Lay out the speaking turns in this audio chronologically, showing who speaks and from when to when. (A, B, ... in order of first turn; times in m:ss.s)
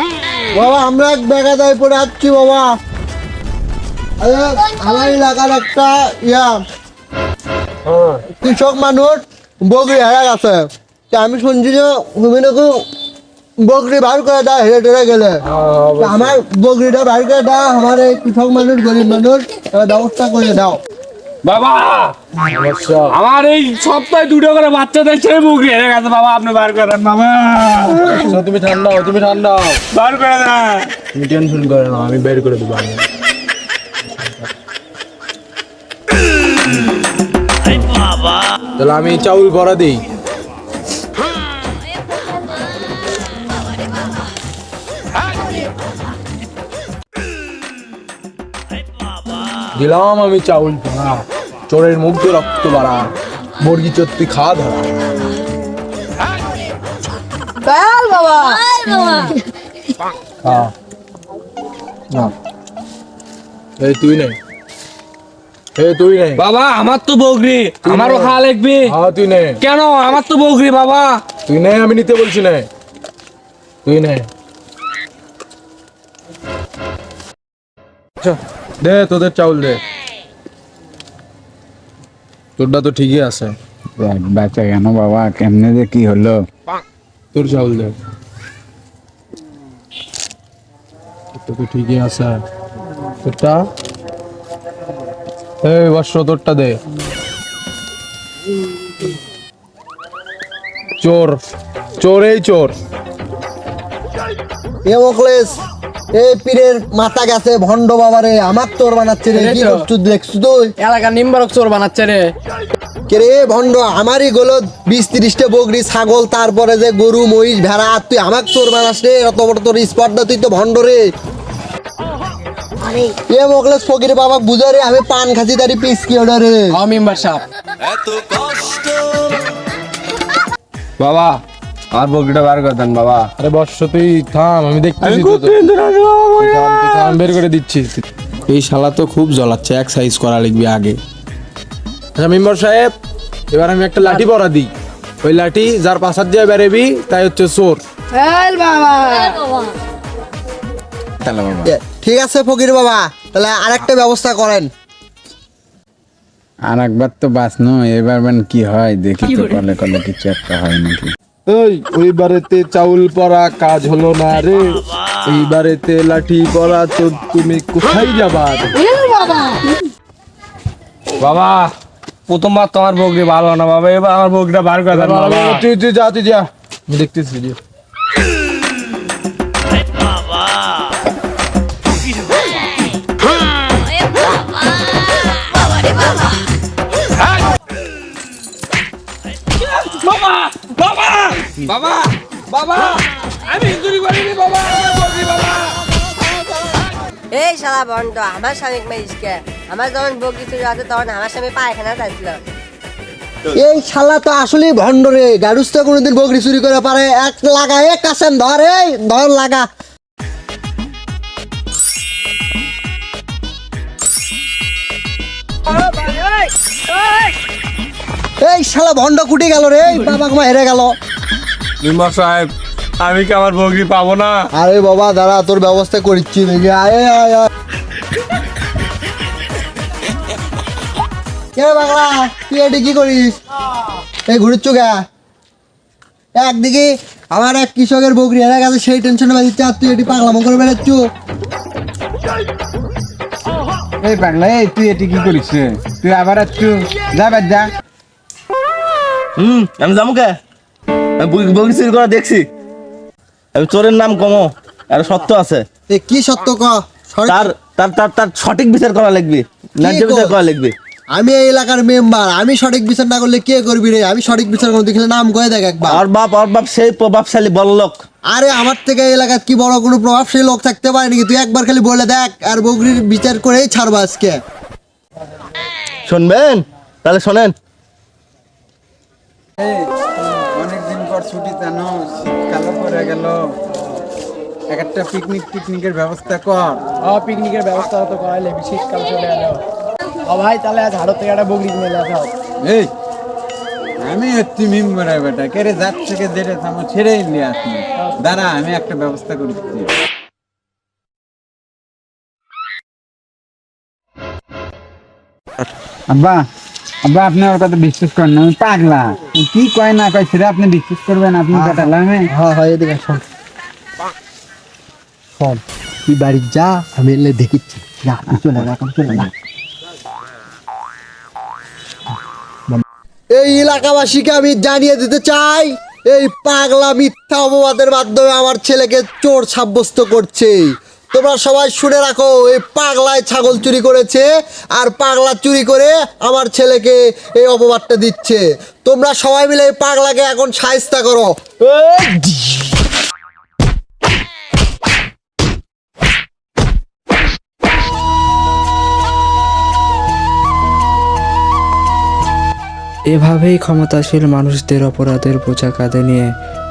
0:00.5-0:02.8 A
0:04.2-0:06.6 A
0:08.4-0:12.9 A
0:13.6-0:15.4 A
0:16.0-0:20.8 A
0:21.4-0:22.2 B
0:22.6-0:23.1 C
0:23.1-0:28.4 B
0:28.3-0:29.8 C
0:29.9-0:30.9 B
0:31.1-0:33.0 C
0:38.8-0:40.0 C
0:49.8-0:54.9 C
0:57.6-0:59.2 D
1:00.4-1:00.7 C
1:03.8-1:04.4 C
1:05.8-1:06.4 C
1:06.4-1:08.9 B
1:07.9-1:08.4 C
1:08.9-1:09.6 C
1:09.6-1:11.2 B
1:11.5-1:12.7 C
1:13.8-1:14.3 C
1:18.2-1:19.8 C
1:22.6-1:26.4 C
1:27.3-1:28.0 C
1:31.4-1:32.4 C
1:33.2-1:33.7 C
1:35.6-1:36.8 C
1:41.0-1:41.4 C
1:42.0-1:42.8 C
1:44.8-1:45.6 A
1:46.2-1:50.7 A
1:49.4-1:49.8 D
1:50.8-1:52.3 D
1:53.1-2:01.0 A
2:03.0-2:06.7 A
2:06.8-2:07.4 D
2:11.0-2:11.4 B
2:11.9-2:13.3 B
2:13.4-2:15.5 C
2:15.0-2:17.2 B
2:16.4-2:21.0 C
2:22.2-2:23.0 C
2:23.5-2:24.7 C
2:25.2-2:27.8 C
2:28.2-2:29.4 D
2:31.2-2:31.7 C
2:31.6-2:34.7 A
2:36.7-2:49.0 C
2:49.0-2:49.6 D
2:51.2-2:51.7 B
2:52.3-2:55.6 B
2:54.9-2:57.6 C
3:09.6-3:15.9 B
3:17.3-3:22.4 E
3:23.5-3:29.7 A
3:38.4-3:41.0 A
3:41.8-3:44.4 B
3:44.5-3:47.5 A
3:51.6-3:53.4 A
3:54.3-3:55.0 A
3:56.4-4:01.0 A
4:04.0-4:07.7 F
4:09.4-4:10.4 G
4:11.2-4:12.5 G
4:13.6-4:15.6 G
4:15.9-4:17.5 A
4:17.3-4:20.8 G
4:19.8-4:20.4 A
4:21.1-4:26.0 A
4:25.9-4:28.0 G
4:28.3-4:34.4 A
4:36.1-4:37.6 G
4:40.6-4:43.3 F
4:44.7-4:46.8 F
4:47.0-4:49.6 D
4:50.3-4:52.3 D
4:54.0-4:59.8 F
5:06.1-5:06.4 F
5:07.1-5:12.2 F
5:11.5-5:13.2 A
5:15.4-5:19.3 A
5:23.3-5:42.7 A
5:53.1-5:56.3 H